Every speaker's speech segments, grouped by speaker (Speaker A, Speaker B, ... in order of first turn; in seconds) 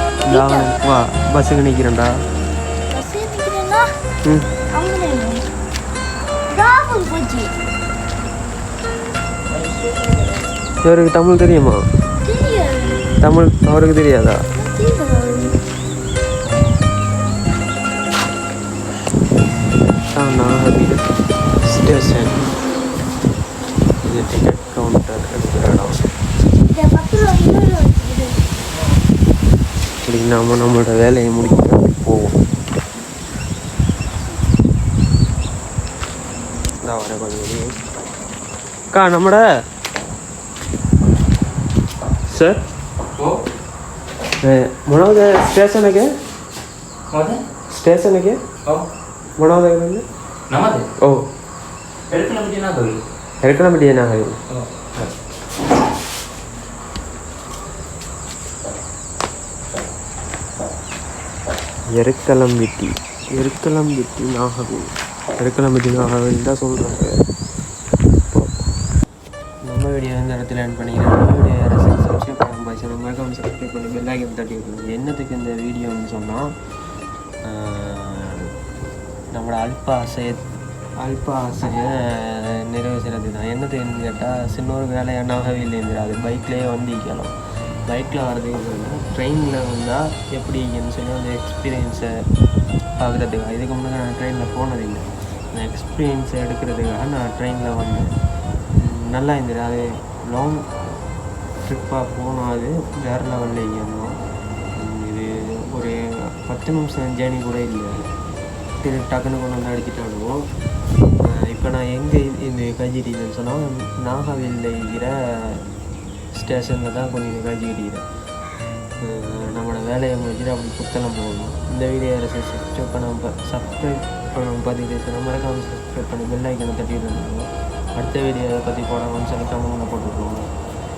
Speaker A: 0.3-2.1, 4.2-4.5, 10.8-11.8, 13.2-14.4, 20.1-21.1, 21.6-22.5, 24.0-26.0, 30.1-32.4, 36.8-37.7, 38.9-39.4, 42.3-42.6, 44.4-46.1, 47.7-48.4, 49.4-50.0, 51.0-51.3, 53.4-54.4, 61.9-67.2, 69.7-76.5, 77.5-78.5, 79.3-80.4, 81.0-87.3, 87.9-92.1, 93.0-98.1, 98.8-100.6, 101.7-104.1, 104.8-105.9, 106.5-108.0, 108.8-110.4, 111.2-115.6, 116.3-118.0, 119.0-130.5
Speaker B: 0.3-0.8, 2.9-3.9, 4.7-5.5, 6.5-7.5, 12.2-13.1, 14.5-15.6, 26.7-28.6
Speaker C: 47.1-47.4, 50.5-50.9, 52.1-53.0, 54.5-55.1